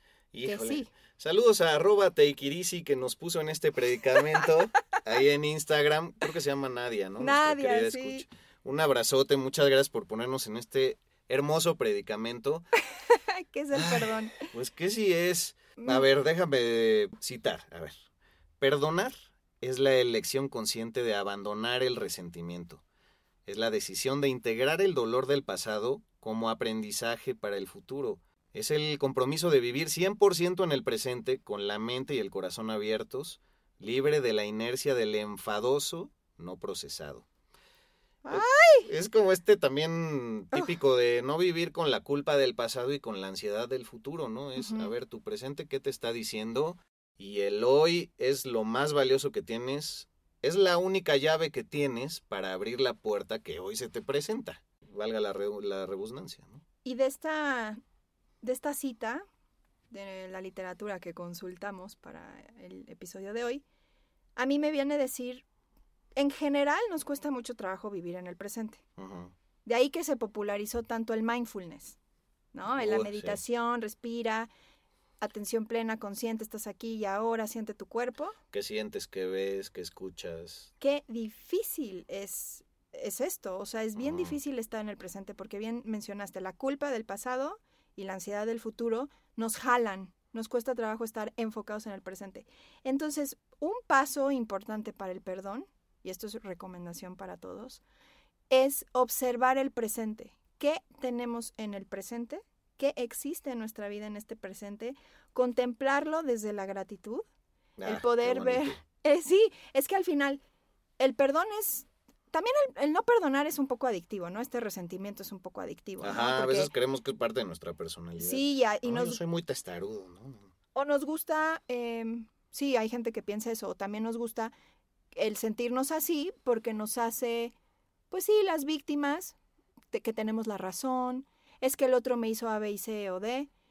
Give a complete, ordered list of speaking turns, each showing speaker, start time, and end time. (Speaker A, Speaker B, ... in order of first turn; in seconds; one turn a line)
Speaker A: 0.3-12.7
Speaker B: 0.4-0.9
Speaker B: 7.2-8.2
Speaker B: 13.1-14.5
Speaker A: 13.7-18.0
Speaker B: 15.8-16.1
Speaker A: 18.6-22.8
Speaker A: 23.5-37.2
Speaker B: 38.2-38.9
Speaker A: 38.3-56.6
Speaker B: 44.6-44.9
Speaker B: 56.9-57.8
Speaker B: 58.4-59.2
Speaker B: 59.9-63.6
Speaker B: 64.4-65.4
Speaker B: 66.2-68.8
Speaker A: 69.0-69.3
Speaker B: 69.7-72.0
Speaker B: 72.5-74.5
Speaker A: 72.7-73.4
Speaker B: 75.2-78.4
Speaker A: 78.5-80.7
Speaker B: 80.8-97.8
Speaker A: 84.0-84.4
Speaker B: 98.5-107.2
Speaker A: 107.8-108.8
Speaker B: 107.8-110.4
Speaker B: 111.0-116.7
Speaker A: 116.0-120.5
Speaker B: 118.2-119.2
Speaker B: 120.8-124.5
Speaker B: 125.1-127.5
Speaker B: 128.1-129.4
Speaker B: 129.9-133.5